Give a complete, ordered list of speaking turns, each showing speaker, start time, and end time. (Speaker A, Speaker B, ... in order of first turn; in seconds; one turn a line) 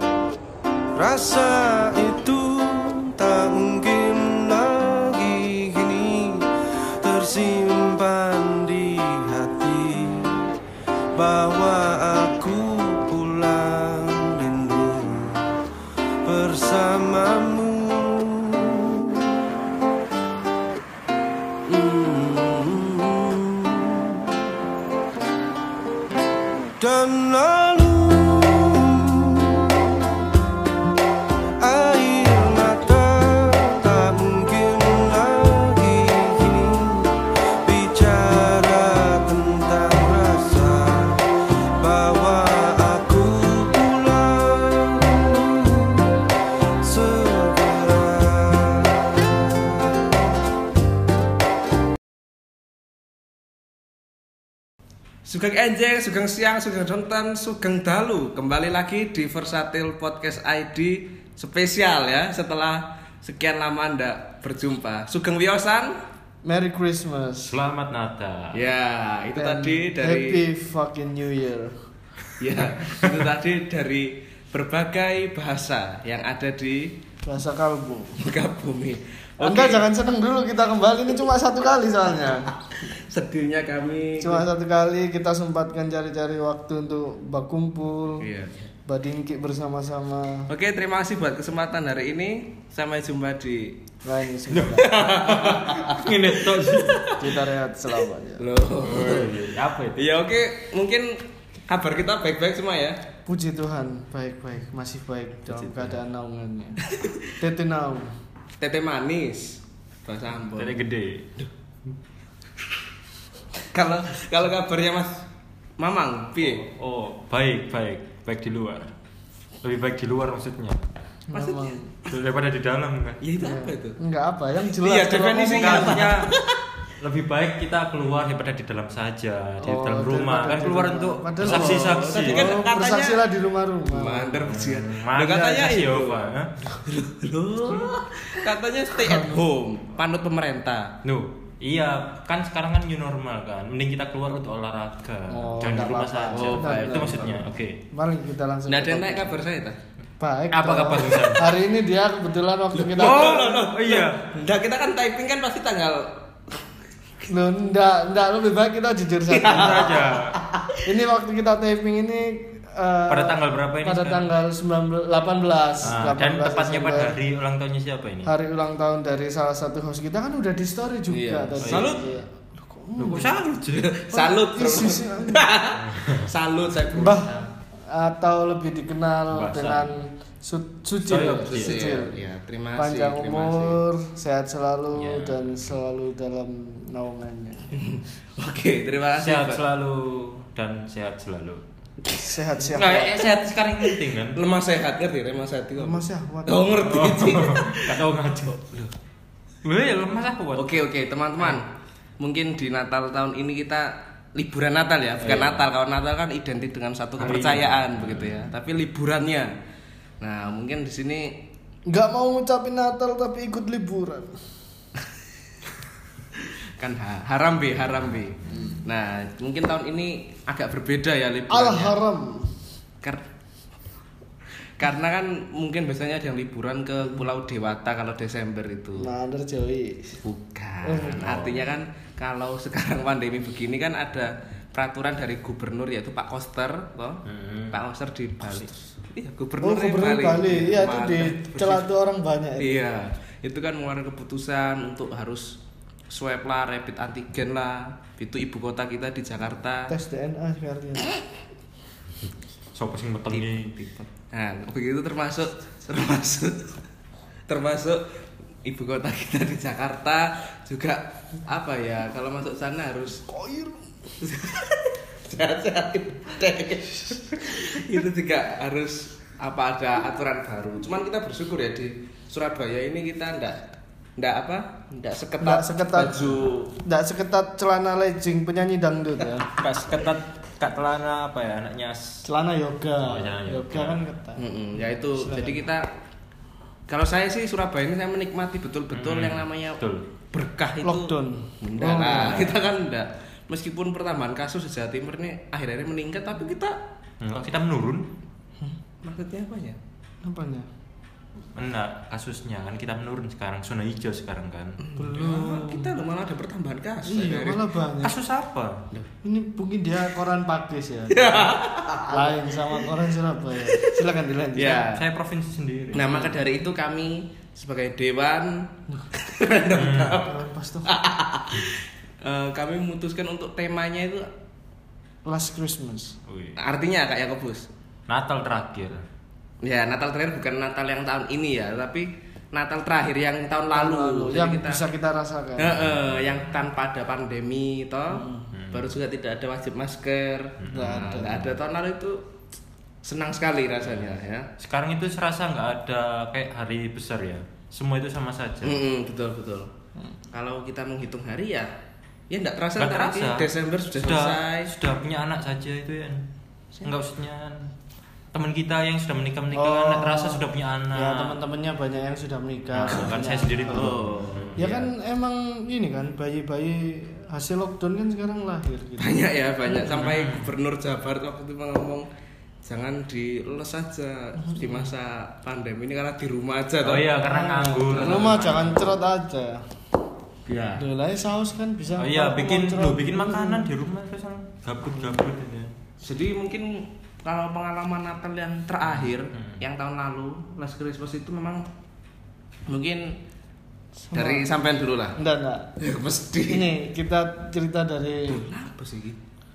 Speaker A: 1.0-6.5
Speaker A: 7.0-10.4
Speaker A: 11.2-15.6
Speaker A: 16.2-19.6
Speaker A: 21.7-24.5
Speaker A: 26.8-30.2
Speaker A: 31.6-41.3
Speaker A: 41.8-46.3
Speaker A: 46.8-49.9
Speaker B: 55.2-66.0
Speaker C: 66.4-67.5
Speaker D: 67.4-68.6
Speaker B: 68.5-70.4
Speaker C: 69.4-71.8
Speaker B: 72.4-77.0
Speaker C: 77.2-78.2
Speaker B: 78.2-79.8
Speaker C: 79.4-82.5
Speaker B: 82.6-84.5
Speaker C: 84.2-88.3
Speaker B: 88.2-88.7
Speaker C: 88.9-90.5
Speaker B: 90.5-93.8
Speaker C: 94.0-95.6
Speaker D: 94.5-97.0
Speaker B: 94.7-97.5
Speaker C: 97.2-98.5
Speaker B: 98.4-99.4
Speaker D: 98.8-100.0
Speaker B: 99.9-103.0
Speaker C: 103.3-108.1
Speaker D: 105.5-105.9
Speaker B: 106.8-107.3
Speaker B: 108.6-110.7
Speaker D: 110.6-111.3
Speaker B: 113.6-115.3
Speaker B: 115.8-116.7
Speaker D: 116.4-118.9
Speaker D: 119.6-120.9
Speaker C: 121.3-122.0
Speaker B: 121.3-121.8
Speaker D: 122.1-123.2
Speaker B: 123.2-124.0
Speaker C: 123.4-126.1
Speaker B: 124.8-126.6
Speaker D: 125.5-126.3
Speaker D: 127.0-132.6
Speaker C: 129.6-134.4
Speaker B: 131.4-133.2
Speaker B: 133.9-141.0
Speaker D: 134.4-136.5
Speaker D: 137.7-137.9
Speaker D: 141.0-147.8
Speaker C: 145.3-149.4
Speaker B: 146.3-147.2
Speaker B: 148.7-149.8
Speaker C: 150.2-153.7
Speaker D: 150.5-151.5
Speaker B: 152.8-156.1
Speaker D: 153.0-154.3
Speaker C: 157.3-160.2
Speaker B: 159.3-160.8
Speaker D: 159.4-160.4
Speaker C: 160.8-167.1
Speaker D: 163.1-164.3
Speaker D: 165.8-168.3
Speaker C: 168.2-173.3
Speaker B: 171.1-172.1
Speaker D: 171.6-172.1
Speaker D: 173.0-173.9
Speaker B: 173.6-177.4
Speaker C: 174.1-175.5
Speaker D: 175.8-176.3
Speaker C: 177.0-182.2
Speaker D: 179.3-180.0
Speaker D: 181.1-181.8
Speaker B: 181.4-183.8
Speaker C: 182.8-187.8
Speaker D: 184.9-185.8
Speaker B: 187.7-189.6
Speaker D: 189.2-191.6
Speaker C: 192.1-193.3
Speaker D: 192.7-194.4
Speaker B: 194.3-198.9
Speaker C: 195.8-197.1
Speaker D: 196.8-198.6
Speaker D: 199.6-200.8
Speaker B: 200.6-209.5
Speaker D: 205.2-205.7
Speaker D: 207.2-208.5
Speaker B: 210.2-211.4
Speaker C: 211.9-214.4
Speaker B: 216.4-222.0
Speaker C: 218.5-218.8
Speaker C: 221.5-222.6
Speaker B: 224.8-229.1
Speaker C: 229.0-230.2
Speaker B: 230.2-241.9
Speaker C: 230.8-231.5
Speaker D: 231.1-231.7
Speaker D: 237.2-237.8
Speaker C: 239.6-242.8
Speaker B: 242.6-245.6
Speaker B: 246.1-249.9
Speaker C: 249.9-251.2
Speaker D: 252.7-253.7
Speaker B: 253.3-256.8
Speaker B: 257.5-258.1
Speaker B: 258.6-263.2
Speaker C: 263.3-263.8
Speaker B: 264.2-276.8
Speaker C: 275.4-279.5
Speaker D: 279.6-282.3
Speaker C: 282.2-284.4
Speaker D: 283.0-284.0
Speaker B: 284.4-285.9
Speaker C: 285.1-285.6
Speaker B: 286.9-296.8
Speaker D: 288.9-290.1
Speaker C: 290.8-292.5
Speaker D: 297.2-298.1
Speaker B: 299.0-299.8
Speaker C: 300.2-300.7
Speaker D: 301.6-304.8
Speaker B: 304.8-307.6
Speaker C: 305.0-305.9
Speaker C: 307.1-308.2
Speaker D: 308.0-308.9
Speaker C: 309.2-314.9
Speaker B: 311.1-312.9
Speaker B: 313.7-314.0
Speaker B: 314.6-315.0
Speaker D: 314.9-316.2
Speaker B: 315.9-324.3
Speaker D: 319.7-320.2
Speaker C: 320.2-320.9
Speaker C: 325.2-326.2
Speaker D: 326.3-326.6
Speaker B: 326.6-327.7
Speaker D: 328.1-329.0
Speaker B: 329.6-334.8
Speaker C: 333.7-335.8
Speaker B: 335.6-342.3
Speaker D: 335.7-336.6
Speaker C: 338.1-338.5
Speaker D: 338.5-339.0
Speaker D: 340.6-341.5
Speaker C: 340.7-341.5
Speaker B: 343.0-344.5
Speaker D: 344.6-348.8
Speaker B: 348.6-349.7
Speaker B: 350.3-351.7
Speaker B: 352.3-354.7
Speaker D: 352.8-356.3
Speaker D: 356.8-357.7
Speaker D: 358.3-361.4
Speaker C: 359.5-364.0
Speaker D: 362.7-364.9
Speaker B: 363.7-364.8
Speaker C: 364.6-369.3
Speaker B: 369.0-372.1
Speaker D: 369.8-370.5
Speaker B: 372.6-377.1
Speaker C: 374.4-374.9
Speaker D: 376.8-379.0
Speaker C: 377.1-379.6
Speaker B: 377.9-378.4
Speaker B: 380.5-380.8
Speaker C: 380.8-383.6
Speaker D: 382.0-385.7
Speaker C: 385.0-385.2
Speaker B: 386.0-391.7
Speaker D: 388.9-389.6
Speaker B: 392.7-393.2
Speaker C: 394.0-394.5
Speaker B: 394.1-395.2
Speaker C: 395.2-395.7
Speaker B: 395.8-396.7
Speaker C: 396.5-398.4
Speaker B: 398.3-399.2